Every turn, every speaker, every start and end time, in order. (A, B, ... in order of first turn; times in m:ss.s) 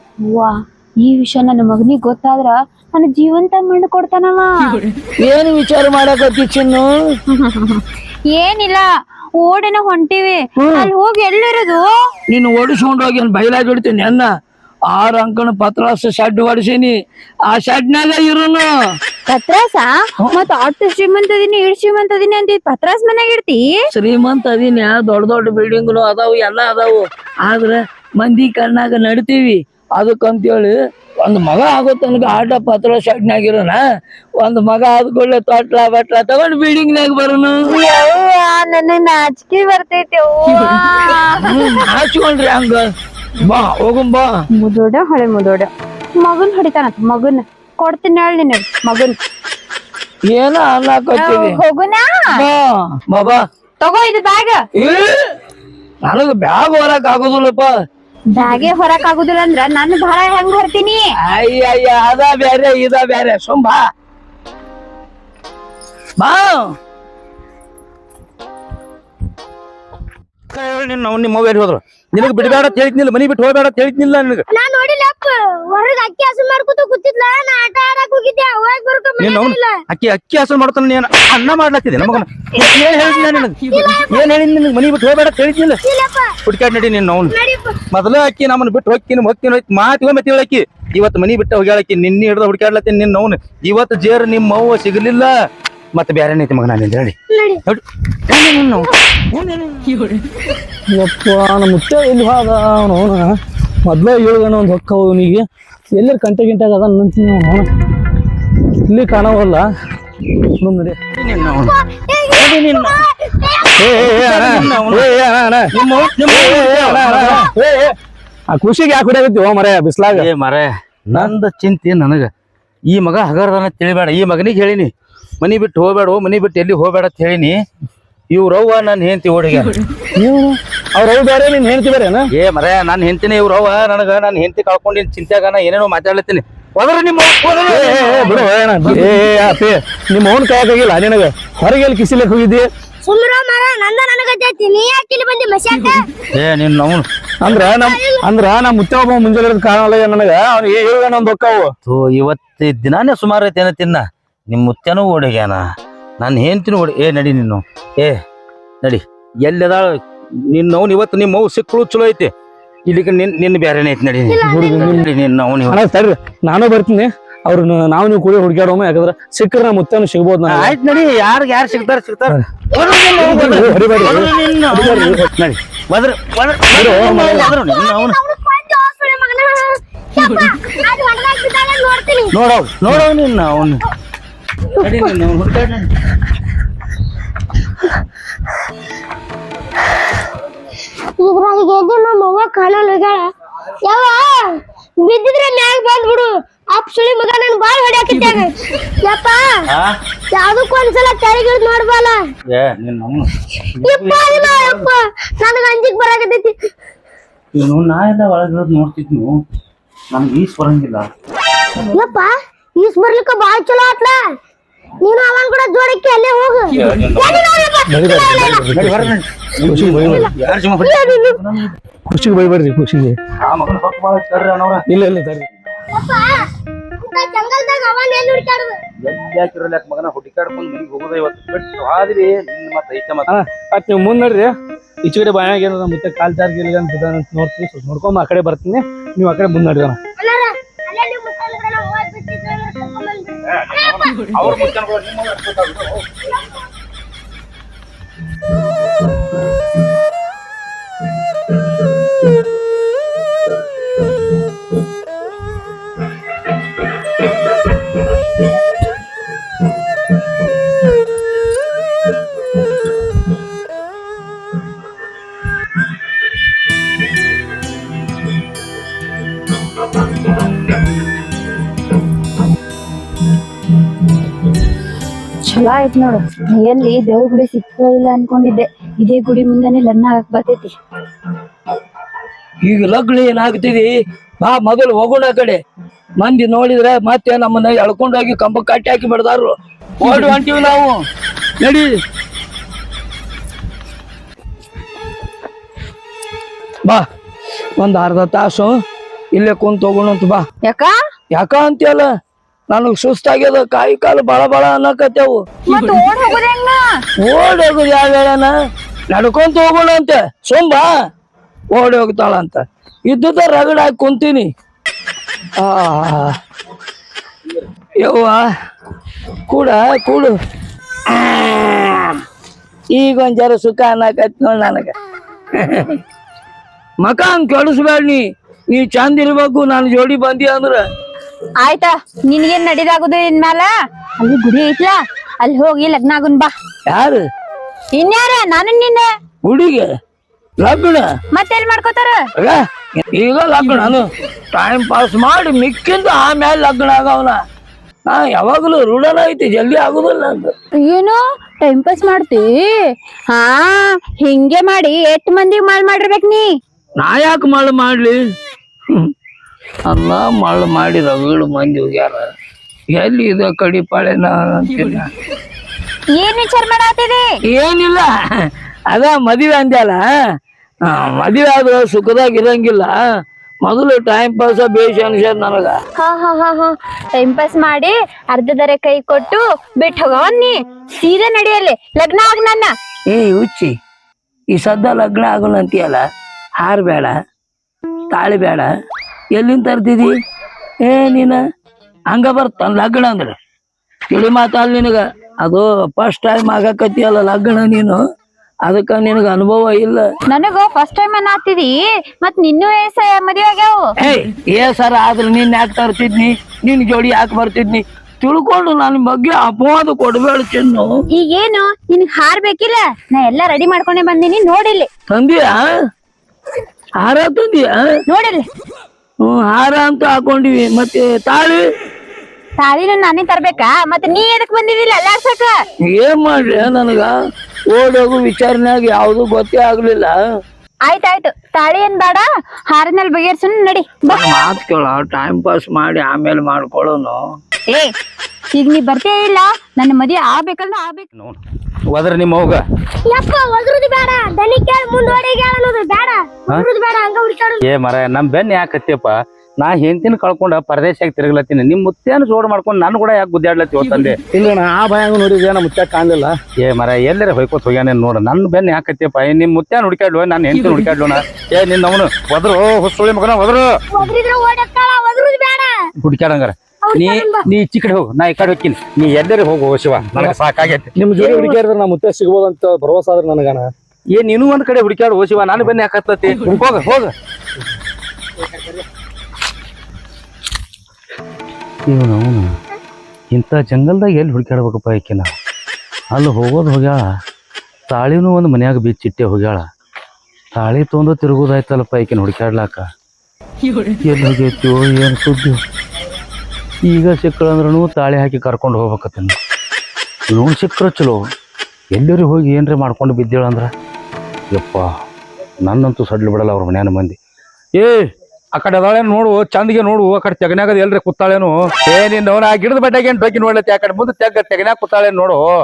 0:00.2-0:04.8 A
0:05.2-0:06.9 B
0:07.3-0:11.9 A
0:10.6-0:10.9 B
0:12.3-0:14.3 B
0:14.9-0:17.0 B
0:17.5-0:18.7 B
0:19.3-0:23.8 A
0:23.9-0:33.8 B
0:34.4-0:37.6 B
0:37.7-0:41.8 A
0:41.4-0:42.8 B
0:43.4-0:44.3 B
0:44.6-0:49.2 A
0:50.3-0:51.6 B
0:51.2-0:52.3 A
0:52.3-0:53.4 B
0:53.8-0:54.6 A
0:54.8-0:55.3 B
0:56.0-0:57.7 B
0:58.3-1:01.0 A
0:58.4-0:58.7 B
1:01.2-1:03.9 B
1:06.2-1:06.7 B
1:10.5-1:14.4 C
1:12.2-1:12.8 D
1:14.5-1:19.8 D
1:19.2-1:25.8 C
1:22.7-1:24.3 D
1:25.8-1:26.4 D
1:26.4-1:27.4 C
1:27.3-1:27.8 D
1:27.9-1:35.3 C
1:36.0-1:37.1 C
1:37.3-1:37.6 D
1:37.7-1:40.0 C
1:40.9-1:47.7 E
1:48.8-1:49.7 E
1:50.6-1:51.0 E
1:51.1-1:51.8 C
1:51.5-1:53.7 D
1:52.3-1:53.0 C
1:53.8-1:55.8 E
1:53.9-1:55.1 C
1:55.8-1:57.4 C
1:55.8-1:56.3 D
1:56.3-1:58.0 E
1:58.5-2:00.3 E
2:00.1-2:02.3 C
2:02.9-2:07.6 C
2:08.3-2:09.8 C
2:10.2-2:12.3 E
2:12.4-2:18.4 C
2:17.7-2:18.4 D
2:17.7-2:22.7 E
2:23.0-2:26.1 D
2:26.4-2:27.1 C
2:27.4-2:31.7 E
2:27.7-2:28.2 D
2:31.9-2:35.6 C
2:36.2-2:38.2 C
2:38.8-2:39.9 C
2:40.5-2:42.3 C
2:42.9-2:45.8 C
2:44.3-2:45.0 D
2:44.4-2:45.0 E
2:45.7-2:50.8 E
2:50.5-2:58.2 C
2:52.7-2:54.5 D
2:53.2-2:55.3 E
2:56.7-2:57.6 E
2:57.0-3:02.3 D
3:02.3-3:03.9 C
3:04.8-3:05.9 C
3:04.8-3:05.1 D
3:11.2-3:13.2 D
3:13.8-3:14.5 D
3:15.0-3:19.4 D
3:20.3-3:22.2 D
3:22.5-3:23.3 C
3:23.8-3:24.9 C
3:23.8-3:26.5 D
3:27.5-3:29.4 C
3:30.1-3:31.1 C
3:31.9-3:34.2 D
3:35.0-3:38.5 D
3:36.7-3:37.4 C
3:37.9-3:40.3 E
3:38.5-3:41.8 C
3:40.8-3:41.4 D
3:42.1-3:43.2 E
3:43.4-3:44.8 C
3:44.9-3:45.5 E
3:45.9-3:46.4 D
3:47.0-3:48.8 D
3:49.0-3:53.3 C
3:53.3-3:54.5 E
3:55.0-4:00.0 E
4:00.2-4:04.1 D
4:03.5-4:06.1 C
4:35.4-4:40.8 A
4:42.6-4:45.6 B
4:46.2-4:51.0 B
4:51.6-4:51.9 B
4:57.8-4:58.8 B
4:59.3-5:00.4 B
5:00.6-5:01.0 A
5:01.3-5:02.1 B
5:02.7-5:05.4 B
5:05.7-5:06.8 A
5:07.2-5:08.5 B
5:09.1-5:10.9 B
5:11.7-5:14.5 B
5:15.6-5:16.4 B
5:18.0-5:18.4 B
5:19.5-5:20.3 B
5:21.1-5:22.1 B
5:22.9-5:24.9 B
5:25.6-5:26.0 B
5:27.0-5:30.8 B
5:31.6-5:36.5 A
5:36.9-5:37.2 B
5:37.9-5:39.1 A
5:39.4-5:39.9 B
5:40.6-5:41.1 B
5:41.3-5:42.2 A
5:42.4-5:47.4 B
5:48.1-5:50.5 B
5:50.8-5:56.5 A
5:57.0-5:58.2 B
5:59.9-6:02.3 B
6:02.9-6:05.1 B
6:06.2-6:07.3 A
6:07.5-6:10.0 B
6:10.8-6:13.0 B
6:13.6-6:15.8 B
6:16.0-6:22.7 A
6:23.1-6:23.7 B
6:24.5-6:26.0 B
6:26.6-6:27.1 B
6:28.1-6:28.7 B
6:29.3-6:30.1 B
6:30.8-6:31.4 B
6:32.1-6:33.4 B
6:34.1-6:38.0 B
6:38.6-6:40.1 B
6:40.3-6:43.9 A
6:44.0-6:50.9 B
6:51.1-6:54.9 A
6:55.1-6:55.7 B
6:57.0-6:57.9 B
6:58.1-6:58.5 A
6:59.2-7:01.6 B
7:02.6-7:05.6 A
7:05.8-7:07.1 B
7:07.7-7:10.2 B
7:10.8-7:14.2 A
7:14.1-7:17.2 B
7:18.5-7:21.1 A
7:21.2-7:21.4 C
7:21.9-7:22.6 C
7:23.1-7:27.6 D
7:27.6-7:34.2 C
7:34.3-7:36.4 E
7:36.6-7:43.8 C
7:43.9-7:45.7 D
7:46.0-7:50.9 C
7:46.8-7:47.5 D
7:50.1-7:50.4 E
7:51.0-7:53.7 E
7:51.2-7:51.6 D
7:54.1-7:57.1 C
8:01.9-8:02.5 C
8:03.3-8:05.3 C
8:06.1-8:07.0 C
8:07.9-8:09.6 C
8:10.5-8:12.8 C
8:14.0-8:15.6 C
8:16.8-8:19.4 C
8:20.3-8:21.2 C
8:21.9-8:23.7 C
8:24.5-8:24.9 C
8:25.6-8:27.2 C
8:27.8-8:35.4 C